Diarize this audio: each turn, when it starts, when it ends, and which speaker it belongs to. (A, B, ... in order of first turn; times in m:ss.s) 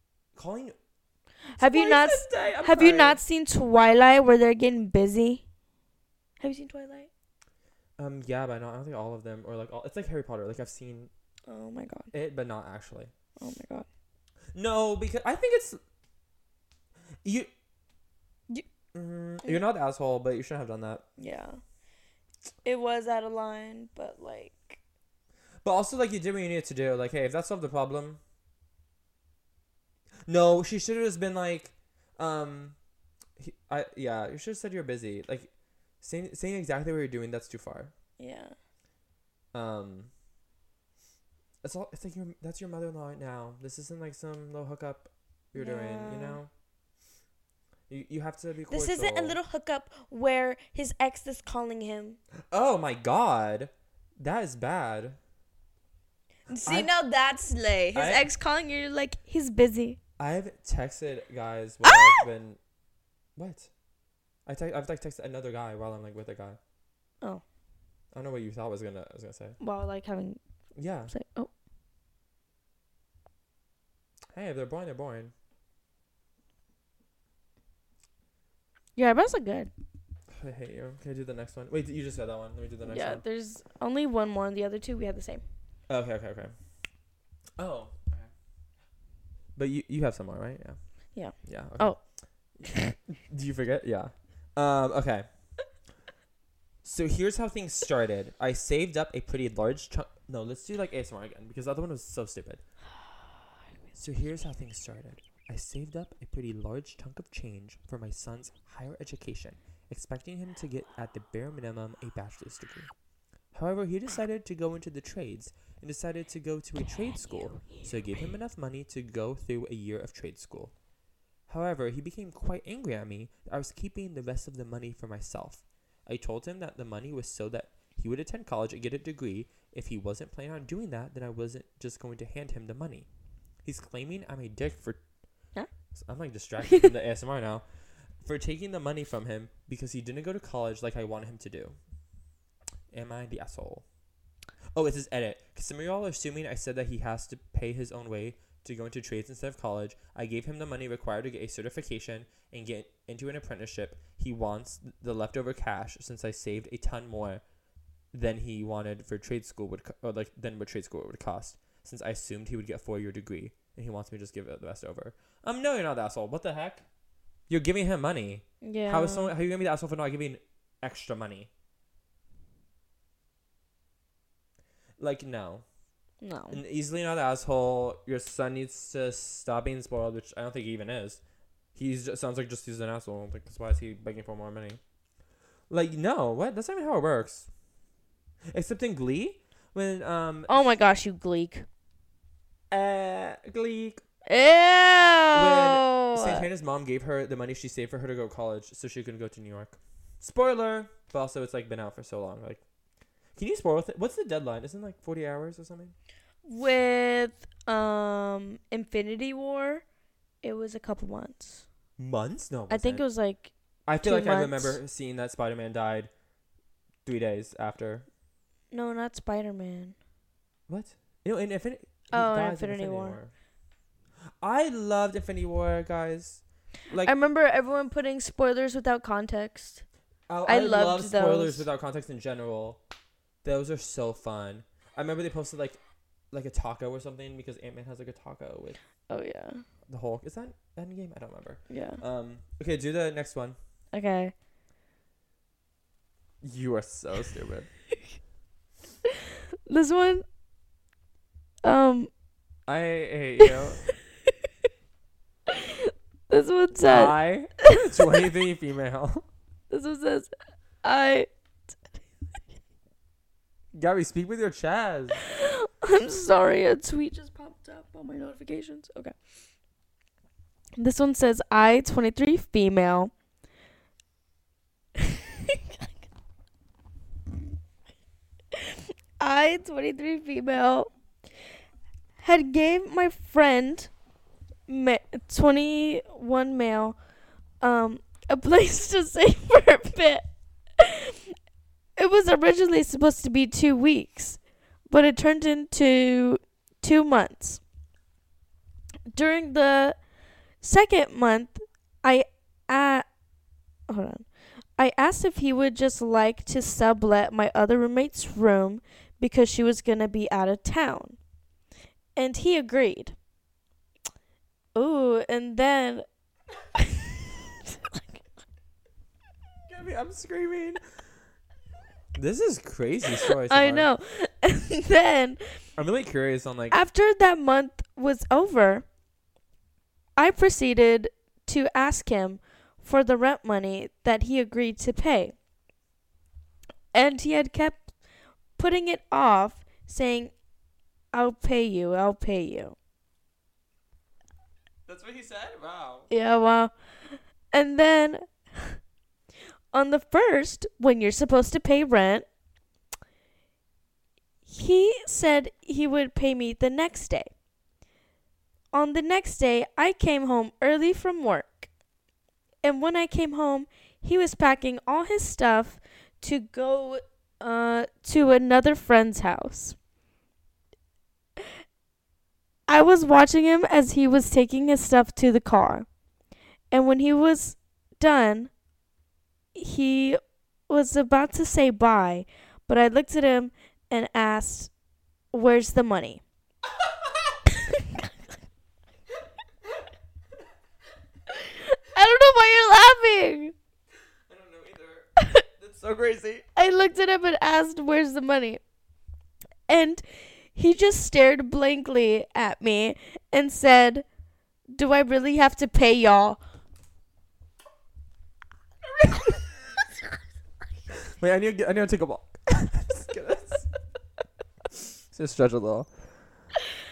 0:00.4-0:00.8 A
0:01.6-0:05.4 B
0:01.6-0:03.2 A
0:06.4-0:07.1 B
0:08.0-0:11.1 A
0:11.5-0:12.1 B
0:12.1-0:13.1 A
0:13.4-0:13.9 B
0:14.5-0:15.8 A
0:17.2-0:17.5 A
0:18.9-0:21.0 A
0:21.2-0:21.6 B
0:22.6-0:24.8 B
0:25.6-0:28.2 A
0:30.3-0:32.8 A
0:33.4-0:37.9 A
0:38.2-0:38.6 B
0:39.5-0:40.1 A
0:41.6-0:46.5 A
0:45.6-0:46.4 B
0:47.9-0:49.4 A
0:48.7-0:52.2 B
0:52.5-0:55.2 A
0:56.5-1:00.0 B
0:56.5-0:56.9 A
0:58.0-0:58.2 A
1:00.2-1:02.6 A
1:01.8-1:02.2 B
1:03.4-1:03.7 A
1:04.5-1:06.6 A
1:08.1-1:09.6 A
1:09.6-1:10.4 B
1:10.8-1:11.1 A
1:11.1-1:11.5 B
1:14.3-1:15.3 A
1:19.0-1:19.7 B
1:20.3-1:23.2 A
1:22.9-1:25.4 B
1:25.9-1:26.6 A
1:27.6-1:28.3 A
1:29.6-1:35.3 A
1:31.1-1:32.6 B
1:36.8-1:42.6 A
1:44.0-1:52.9 A
1:53.5-2:00.7 A
1:57.3-1:57.8 B
2:01.5-2:13.1 A
2:13.6-2:15.0 A
2:15.9-2:21.8 A
2:22.9-2:23.9 A
2:24.7-2:37.4 A
2:38.1-2:46.8 A
2:47.5-2:51.5 A
2:48.6-2:49.3 B
2:55.0-2:55.6 A
2:56.2-2:56.6 B
2:56.5-3:01.2 A
3:01.8-3:04.8 A
3:05.7-3:07.5 A
3:08.5-3:10.6 A
3:10.5-3:11.7 B
3:12.7-3:14.0 A
3:14.3-3:16.5 B
3:15.3-3:22.6 A
3:23.3-3:26.0 A
3:26.4-3:29.9 B
3:30.4-3:31.7 B
3:32.0-3:33.1 A
3:32.7-3:34.8 B
3:33.9-3:36.1 A
3:37.0-3:38.1 A
3:38.7-3:40.0 B
3:40.7-3:43.3 A
3:42.1-3:43.2 B
3:44.4-3:47.1 A
3:47.0-3:49.9 B
3:50.3-3:52.8 A
3:50.5-3:51.7 B
3:53.4-3:55.8 A
3:56.3-3:58.8 A
3:59.1-3:59.6 B
3:59.9-4:03.6 A
4:01.7-4:02.0 B
4:03.9-4:04.3 B
4:06.4-4:07.7 A
4:09.7-4:10.2 B
4:11.6-4:12.1 B
4:12.7-4:13.8 A
4:15.5-4:17.2 B
4:16.8-4:19.3 A
4:19.7-4:20.3 B
4:20.8-4:21.3 B
4:23.7-4:25.2 A
4:25.4-4:29.2 B
4:30.8-4:33.1 B
4:39.2-4:40.9 B
4:42.2-4:43.9 B
4:44.7-4:47.0 B
4:47.6-4:51.1 B
4:52.0-4:57.6 B
4:59.1-5:00.1 B
5:00.6-5:03.1 B
5:03.9-5:11.2 B
5:12.1-5:13.2 B
5:14.8-5:16.0 B
5:18.0-5:18.2 B
5:19.7-5:21.0 A
5:22.1-5:23.9 A
5:23.5-5:25.6 B
5:25.8-5:26.8 A
5:26.7-5:28.9 B
5:30.2-5:35.4 B
5:36.9-5:38.0 B
5:38.6-5:40.4 B
5:41.1-5:42.8 B
5:44.9-5:46.1 A
5:46.1-5:48.8 B
5:49.7-5:52.3 B
5:54.5-5:57.3 B
5:58.7-6:01.7 B
6:02.6-6:09.8 B
6:12.7-6:15.9 B
6:16.7-6:18.5 B
6:19.6-6:24.7 B
6:25.3-6:26.2 B
6:26.8-6:27.3 A
6:31.3-6:33.5 B
6:34.3-6:36.4 A
6:36.6-6:38.6 B
6:39.7-6:44.1 B
6:44.7-6:46.4 B
6:51.2-6:53.7 A
6:55.1-6:56.5 A